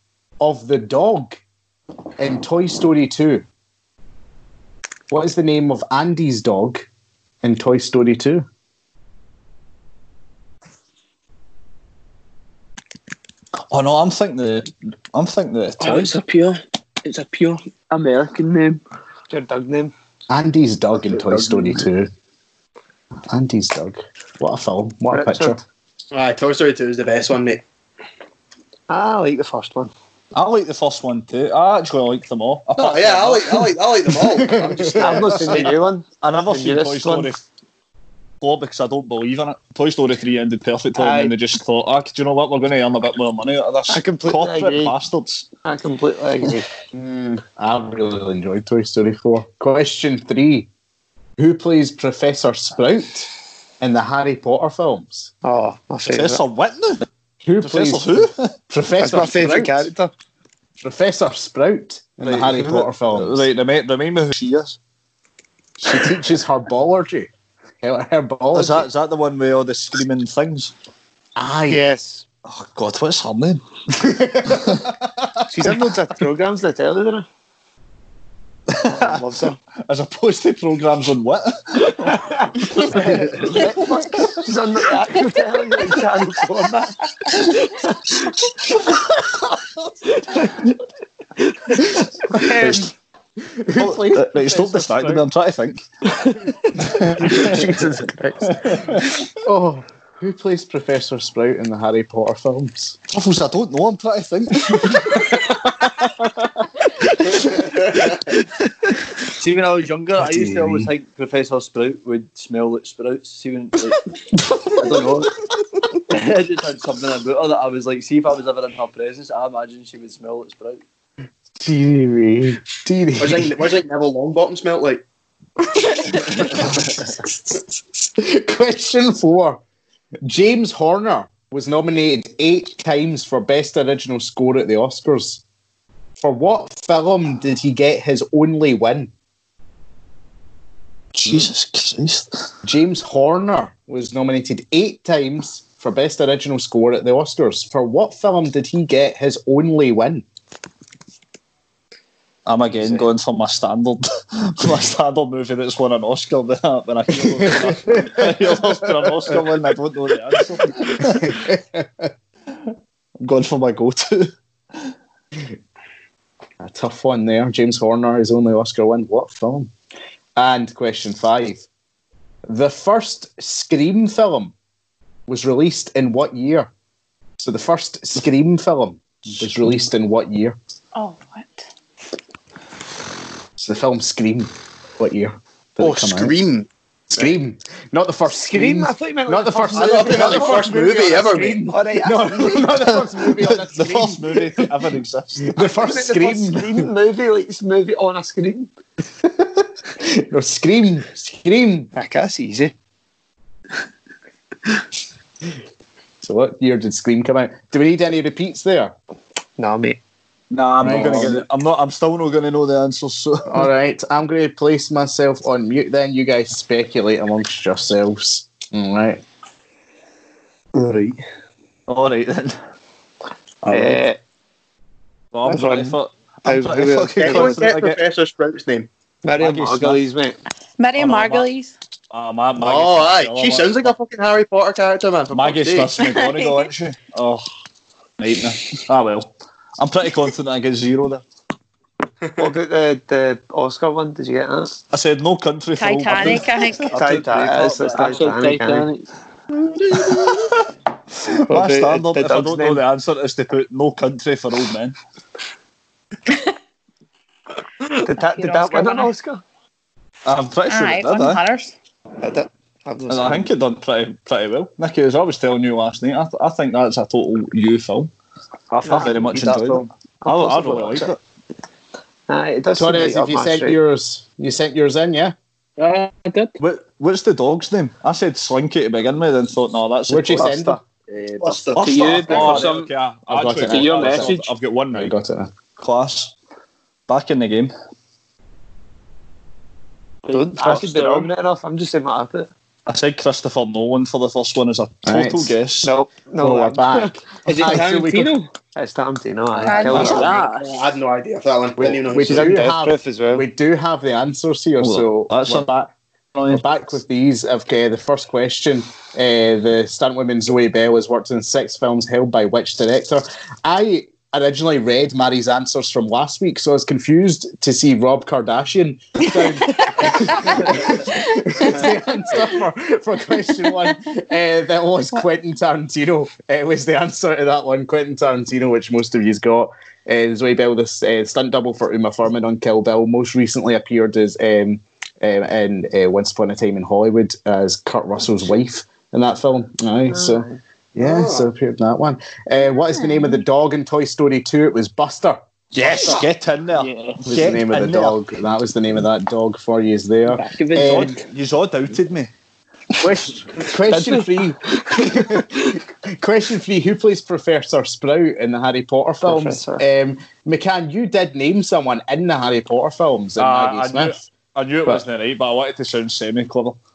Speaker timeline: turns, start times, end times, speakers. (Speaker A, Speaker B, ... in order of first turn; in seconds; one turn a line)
Speaker A: 0.4-1.4
Speaker A: 2.2-3.5
Speaker A: 5.1-6.9
Speaker A: 7.4-8.4
Speaker B: 13.7-16.1
Speaker C: 15.8-18.8
Speaker D: 19.3-19.9
Speaker A: 20.3-22.1
Speaker A: 23.3-25.6
Speaker D: 25.1-25.6
Speaker E: 26.1-27.6
Speaker D: 28.9-29.9
Speaker B: 30.3-33.7
Speaker E: 32.8-35.7
Speaker A: 34.3-35.7
Speaker D: 35.0-37.3
Speaker B: 36.2-37.4
Speaker B: 38.4-45.5
Speaker D: 41.0-41.3
Speaker D: 43.9-44.9
Speaker D: 45.6-46.6
Speaker A: 46.9-50.7
Speaker A: 51.4-53.3
Speaker A: 53.8-55.3
Speaker D: 55.4-56.4
Speaker B: 56.1-57.1
Speaker A: 57.4-59.9
Speaker B: 57.6-58.5
Speaker D: 59.0-60.1
Speaker A: 60.8-63.4
Speaker B: 63.1-64.8
Speaker A: 65.8-67.3
Speaker A: 67.8-68.9
Speaker B: 68.5-70.7
Speaker A: 71.4-71.8
Speaker D: 71.7-72.2
Speaker B: 72.4-73.6
Speaker A: 74.0-75.2
Speaker D: 75.5-77.2
Speaker B: 78.7-79.2
Speaker D: 78.9-79.6
Speaker B: 79.8-83.7
Speaker D: 82.1-88.4
Speaker D: 90.1-90.6
Speaker D: 91.5-91.9
Speaker A: 92.3-92.9
Speaker A: 93.4-95.2
Speaker B: 93.8-95.8
Speaker B: 96.9-97.6
Speaker A: 97.0-103.0
Speaker B: 103.1-104.8
Speaker F: 109.3-114.0
Speaker A: 110.2-110.9
Speaker F: 114.7-115.4
Speaker F: 116.1-120.8
Speaker A: 121.6-123.5
Speaker E: 123.2-125.0
Speaker A: 125.9-129.6
Speaker A: 130.2-135.4
Speaker A: 136.2-139.1
Speaker B: 141.1-142.5
Speaker A: 142.6-150.2
Speaker B: 152.4-161.4
Speaker A: 157.4-159.4
Speaker A: 160.7-162.1
Speaker B: 163.2-164.9
Speaker A: 166.6-169.7
Speaker A: 170.4-171.7
Speaker A: 172.5-174.5
Speaker A: 175.3-176.7
Speaker A: 177.4-180.6
Speaker G: 180.9-181.6
Speaker A: 183.6-186.4
Speaker E: 185.8-187.3
Speaker A: 187.2-194.7
Speaker D: 188.5-192.7
Speaker E: 189.7-191.6
Speaker B: 193.0-195.5
Speaker A: 195.4-196.8
Speaker D: 195.6-198.7
Speaker A: 199.2-201.9
Speaker D: 202.0-202.7
Speaker A: 206.2-208.9
Speaker D: 209.6-210.0
Speaker B: 210.5-213.7
Speaker A: 210.8-211.4
Speaker A: 213.5-219.2
Speaker F: 220.7-221.2
Speaker B: 221.9-222.6
Speaker D: 223.7-224.2
Speaker B: 223.7-224.0
Speaker B: 225.3-228.0
Speaker D: 225.4-227.6
Speaker E: 227.2-228.9
Speaker D: 229.2-230.4
Speaker B: 229.4-230.0
Speaker G: 230.8-231.7
Speaker B: 230.9-231.5
Speaker B: 232.1-233.9
Speaker E: 232.6-235.9
Speaker B: 235.3-237.4
Speaker G: 236.0-236.7
Speaker B: 238.2-241.2
Speaker D: 242.4-244.7
Speaker B: 244.9-247.4
Speaker G: 245.8-246.9
Speaker F: 246.9-248.5
Speaker D: 246.9-248.9
Speaker C: 247.9-249.0
Speaker B: 249.9-250.5
Speaker D: 251.5-252.8
Speaker B: 251.5-255.0
Speaker D: 258.0-259.4
Speaker G: 258.1-259.1
Speaker B: 260.2-261.4
Speaker G: 260.7-261.7
Speaker D: 262.2-263.5
Speaker B: 263.1-268.1
Speaker B: 268.7-271.2
Speaker D: 268.9-269.1
Speaker F: 268.9-269.8
Speaker D: 270.2-271.1
Speaker D: 272.3-273.8
Speaker A: 272.8-275.4
Speaker C: 275.8-276.5
Speaker B: 276.6-280.7
Speaker A: 280.1-280.8
Speaker D: 280.5-280.8
Speaker F: 281.1-282.5
Speaker E: 281.4-282.7
Speaker C: 281.8-282.9
Speaker B: 281.8-285.1
Speaker A: 283.3-284.3
Speaker C: 283.6-284.5
Speaker A: 284.9-285.5
Speaker B: 285.8-286.4
Speaker B: 287.1-287.7
Speaker D: 290.3-292.5
Speaker C: 290.3-291.3
Speaker B: 292.9-295.9
Speaker A: 295.1-295.5
Speaker D: 295.8-297.2
Speaker A: 296.4-298.3
Speaker C: 297.4-298.5
Speaker D: 298.8-300.3
Speaker G: 299.6-300.3
Speaker C: 299.7-300.7
Speaker E: 299.9-302.6
Speaker A: 301.8-305.7
Speaker D: 302.2-303.4
Speaker B: 304.8-306.6
Speaker A: 306.5-346.1
Speaker G: 319.7-321.7
Speaker D: 340.1-340.6
Speaker E: 341.0-341.5
Speaker B: 345.8-348.2
Speaker C: 346.8-347.2
Speaker A: 347.2-351.1
Speaker C: 350.3-351.2
Speaker B: 350.8-352.3
Speaker A: 353.0-364.2
Speaker D: 353.9-355.4
Speaker D: 359.2-359.9
Speaker B: 363.4-366.8